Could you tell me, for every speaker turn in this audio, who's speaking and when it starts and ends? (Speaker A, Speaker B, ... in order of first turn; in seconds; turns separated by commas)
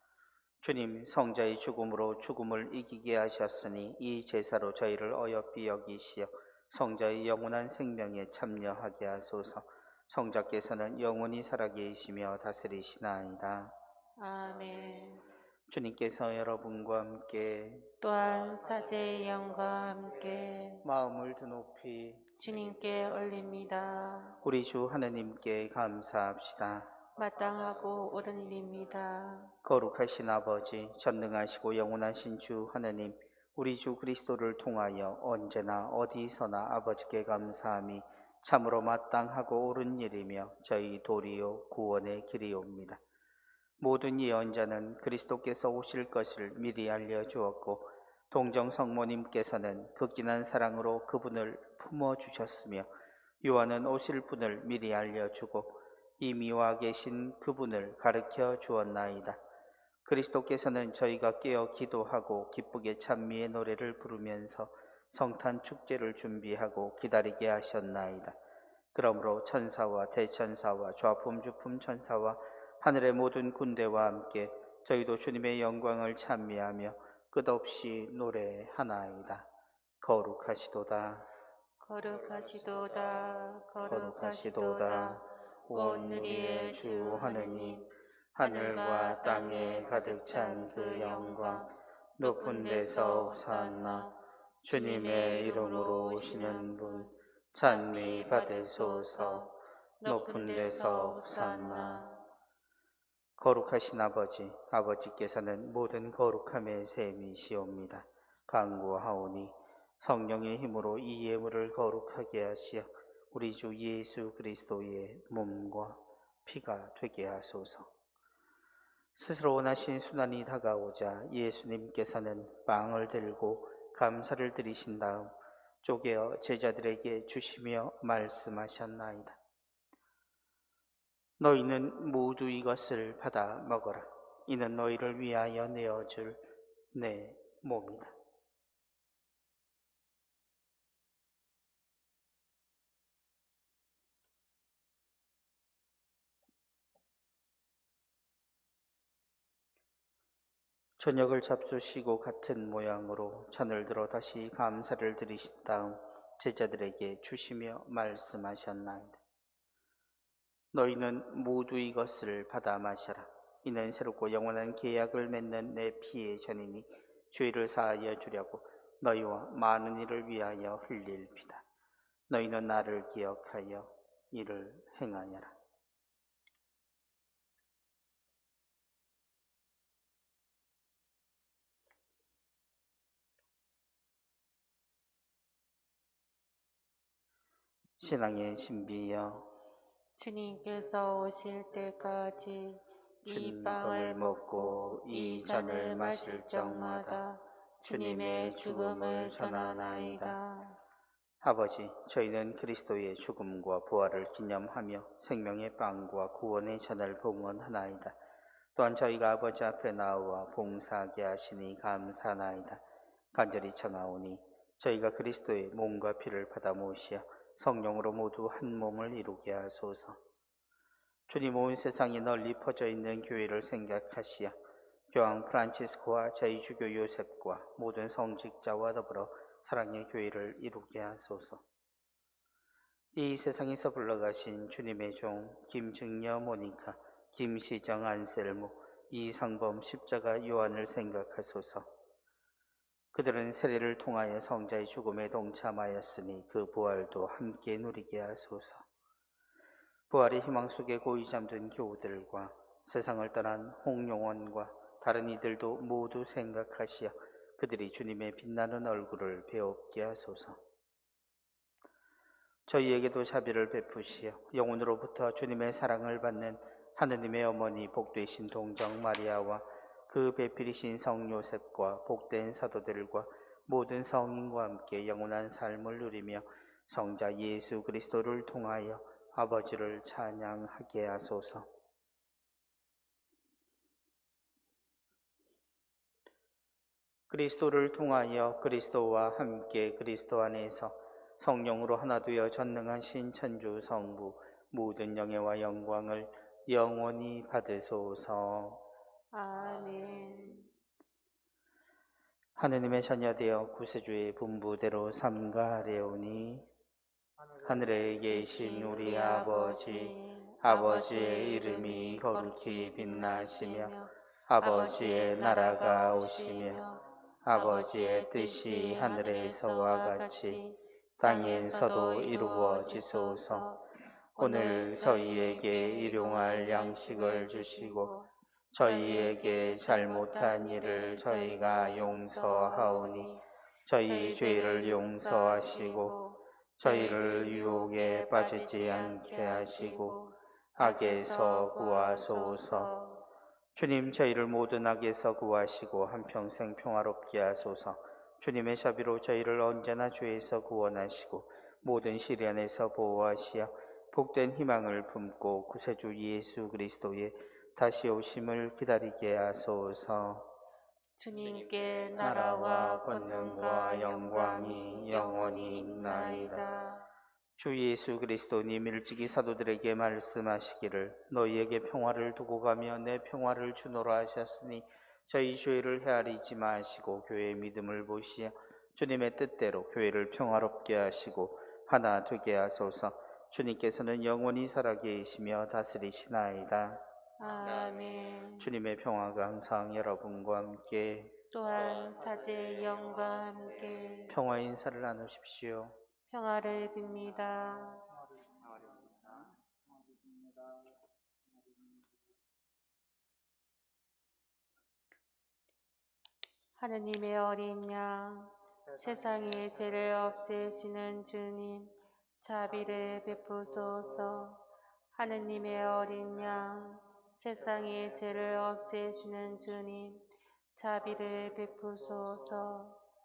Speaker A: 0.6-13.7, Speaker B: 14.2-15.2, Speaker A: 15.7-17.9, Speaker B: 18.0-20.8, Speaker A: 20.8-22.2, Speaker B: 22.4-24.4, Speaker A: 24.4-26.9, Speaker B: 27.1-29.5, Speaker A: 29.6-43.0, Speaker A: 43.8-52.9, Speaker A: 53.4-59.4, Speaker A: 60.0-68.3, Speaker A: 68.9-79.5, Speaker A: 80.0-81.3, Speaker B: 81.8-91.7, Speaker A: 83.8-91.7, Speaker A: 92.2-94.1, Speaker B: 92.2-94.2, Speaker A: 94.6-99.5, Speaker B: 94.7-102.2, Speaker A: 100.0-102.0, Speaker A: 103.4-117.9, Speaker A: 119.2-129.4, Speaker A: 131.4-138.2, Speaker A: 151.0-159.2, Speaker A: 160.7-171.6, Speaker A: 172.3-175.5, Speaker A: 188.0-189.5, Speaker B: 190.2-200.8, Speaker A: 193.2-197.2, Speaker A: 197.8-200.4, Speaker A: 201.4-208.2, Speaker A: 208.8-212.8, Speaker A: 213.3-220.2, Speaker A: 221.3-224.5, Speaker A: 225.1-231.6, Speaker A: 233.1-241.9, Speaker A: 243.1-248.8, Speaker A: 250.1-260.6, Speaker A: 262.7-281.7, Speaker A: 287.3-298.8, Speaker B: 299.3-300.7, Speaker A: 302.6-306.7, Speaker A: 307.6-313.9, Speaker B: 308.3-317.0, Speaker A: 314.5-316.8, Speaker A: 317.4-320.6, Speaker B: 317.5-323.9, Speaker A: 321.2-323.6, Speaker A: 324.4-328.1, Speaker B: 324.4-333.4, Speaker A: 328.7-333.3, Speaker A: 333.9-336.1, Speaker B: 334.0-343.2, Speaker A: 336.8-340.1, Speaker A: 340.8-342.9, Speaker A: 343.7-360.5, Speaker B: 361.2-367.1, Speaker A: 362.2-366.6, Speaker A: 367.6-387.0, Speaker B: 387.4-388.7, Speaker A: 388.6-391.4, Speaker B: 391.5-394.4, Speaker A: 394.3-396.0, Speaker B: 396.3-398.1, Speaker B: 406.8-414.6, Speaker B: 415.1-423.0